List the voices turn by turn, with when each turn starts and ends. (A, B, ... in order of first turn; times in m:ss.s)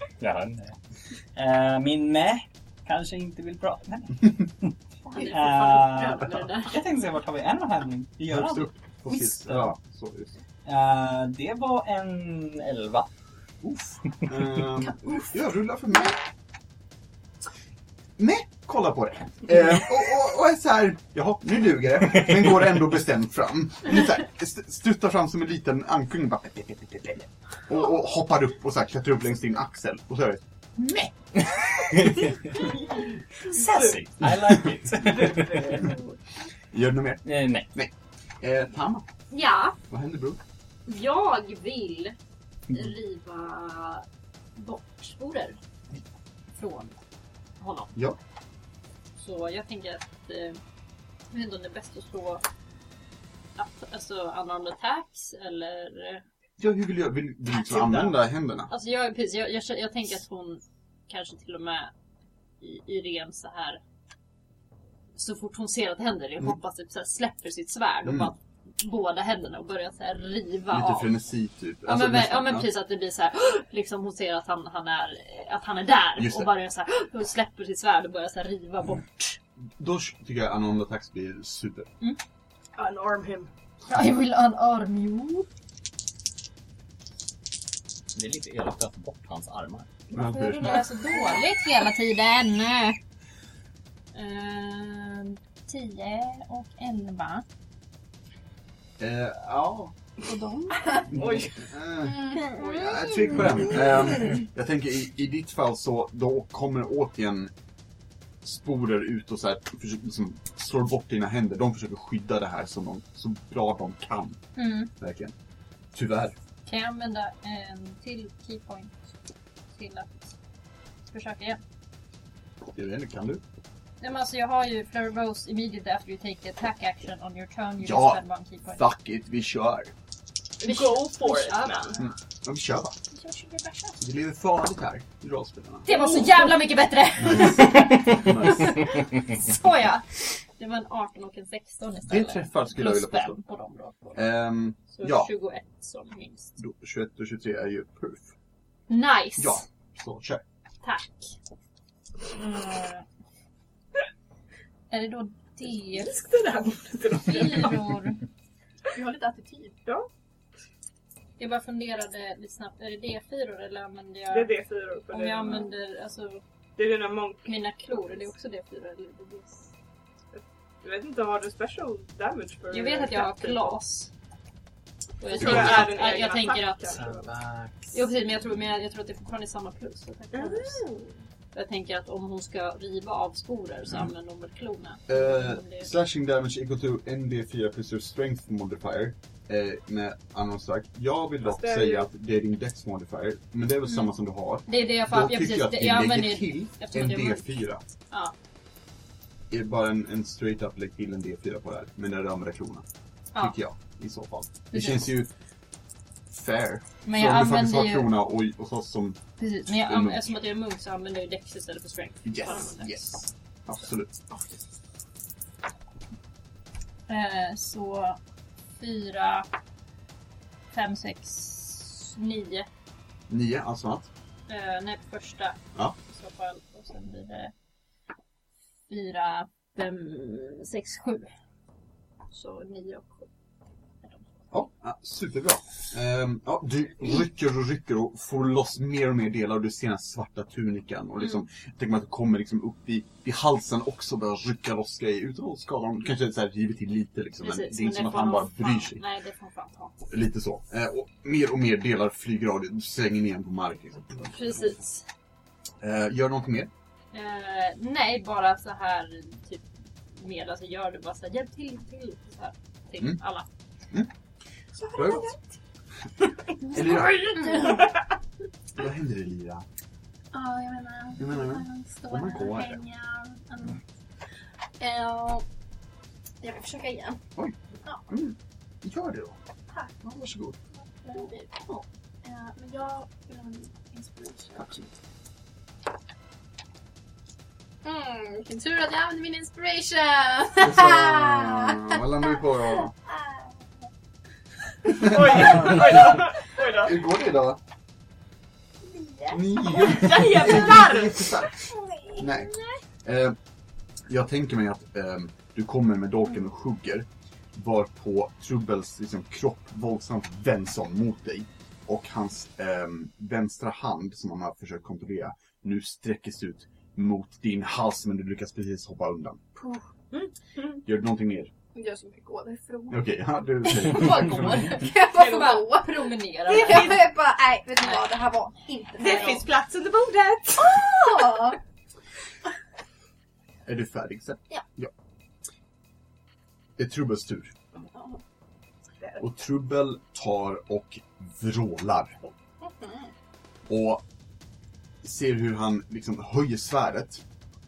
0:00.2-0:00.8 A
0:01.3-0:09.7 A
0:05.1-0:06.8 B
0:08.3-0:10.4 C
0:10.6-0:13.1 A
0:13.6-0:16.2 C
0:18.2-0:30.4 C
0:30.9-0:32.6 A
0:32.5-0:33.9 D
0:33.4-0:35.8 A
0:35.1-0:36.0 D
0:36.7-0:39.0 C
0:37.2-0:37.7 A
0:39.3-0:39.8 B
0:39.9-0:40.4 C
0:40.9-0:42.2 B
0:42.7-0:44.0 B
0:44.6-0:45.6 B
0:46.5-0:47.0 B
0:47.6-0:47.9 B
0:49.2-0:50.6 B
0:51.3-0:52.4 B
0:53.6-0:56.2 B
0:56.6-0:58.7 C
0:57.7-0:58.1 D
0:58.7-1:01.9 B
1:02.6-1:03.8 B
1:05.2-1:11.1 B
1:08.0-1:08.3 C
1:10.7-1:12.7 C
1:11.8-1:19.4 B
1:16.2-1:16.5 C
1:19.8-1:21.9 C
1:22.8-1:23.5 D
1:23.8-1:25.5 B
1:28.1-1:29.9 A
1:30.1-1:30.9 C
1:30.1-1:33.0 B
1:34.1-1:37.4 B
1:39.0-1:39.9 C
1:40.2-1:41.0 B
1:41.1-1:41.6 D
1:41.1-1:47.5 C
1:42.2-1:43.4 B
1:48.4-1:54.4 C
1:54.6-1:54.9 B
1:55.0-1:55.3 C
1:55.9-1:56.3 C
1:56.6-1:59.1 B
1:59.7-2:00.3 B
2:01.1-2:01.6 B
2:02.7-2:03.4 C
2:04.0-2:08.8 B
2:07.8-2:08.2 C
2:08.7-2:09.9 C
2:10.6-2:12.0 D
2:10.6-2:12.0 B
2:12.0-2:13.0 C
2:13.1-2:14.0 B
2:14.0-2:16.0 C
2:15.8-2:24.2 B
2:17.7-2:18.2 A
2:18.1-2:18.8 C
2:22.1-2:23.4 C
2:24.1-2:25.3 C
2:24.9-2:26.6 B
2:26.6-2:28.3 C
2:28.9-2:29.6 B
2:29.4-2:30.4 C
2:30.8-2:31.4 B
2:32.3-2:33.0 B
2:34.9-2:36.2 B
2:35.9-2:38.0 D
2:37.2-2:38.2 B
2:38.9-2:39.8 E
2:41.4-2:44.5 B
2:44.3-2:45.7 D
2:45.1-2:46.4 B
2:46.8-2:47.6 D
2:47.4-2:49.7 B
2:50.3-2:53.8 D
2:52.7-2:54.1 B
2:55.2-2:57.0 B
2:55.3-2:57.3 D
2:56.9-2:58.0 A
2:57.9-3:00.8 B
3:00.3-3:01.2 D
3:01.5-3:05.9 B
3:05.1-3:17.8 C
3:11.4-3:12.1 D
3:14.7-3:17.6 B
3:19.5-3:22.8 C
3:23.4-3:25.3 C
3:24.7-3:25.1 B
3:26.3-3:30.3 C
3:27.0-3:28.2 B
3:29.4-3:33.2 B
3:32.2-3:34.4 C
3:37.1-3:38.2 B
3:38.8-3:39.5 B
3:40.7-3:42.7 B
3:43.3-3:44.1 C
3:44.5-3:47.5 B
3:48.9-3:51.3 B
3:52.3-3:53.3 B
3:54.5-4:09.0 C
4:07.4-4:09.9 B
4:10.1-4:14.7 C
4:14.2-4:15.0 B
4:15.8-4:16.7 C
4:17.1-4:23.5 B
4:24.8-4:25.3 D
4:24.9-4:25.3 C
4:26.7-4:27.8 E
4:26.7-4:27.7 C
4:27.4-4:27.8 B
4:28.8-4:29.6 C
4:30.3-4:33.8 E
4:31.2-4:32.8 C
4:34.8-4:35.4 E
4:36.4-4:37.2 E
4:38.1-4:39.4 C
4:40.0-4:40.6 C
4:41.0-4:44.9 E
4:47.8-4:53.6 E
4:50.6-4:52.9 C
4:54.8-4:56.2 C
4:55.0-4:57.0 D
4:56.8-4:57.6 C
4:58.9-5:00.1 E
4:59.3-5:01.6 C
4:59.8-5:01.3 D
5:01.6-5:02.3 E
5:02.2-5:03.4 C
5:04.1-5:19.4 C
5:20.1-5:20.8 D
5:20.8-5:21.5 C
5:21.7-5:23.0 E
5:22.9-5:24.7 C
5:23.7-5:25.7 E
5:23.7-5:27.0 B
5:25.1-5:25.6 D
5:26.5-5:27.0 D
5:26.5-5:29.4 E
5:29.0-5:31.2 D
5:30.6-5:31.6 E
5:33.6-5:34.9 C
5:36.8-5:37.5 C
5:39.2-5:42.2 C
5:42.6-5:43.1 E
5:43.7-5:44.0 C
5:45.0-5:47.2 C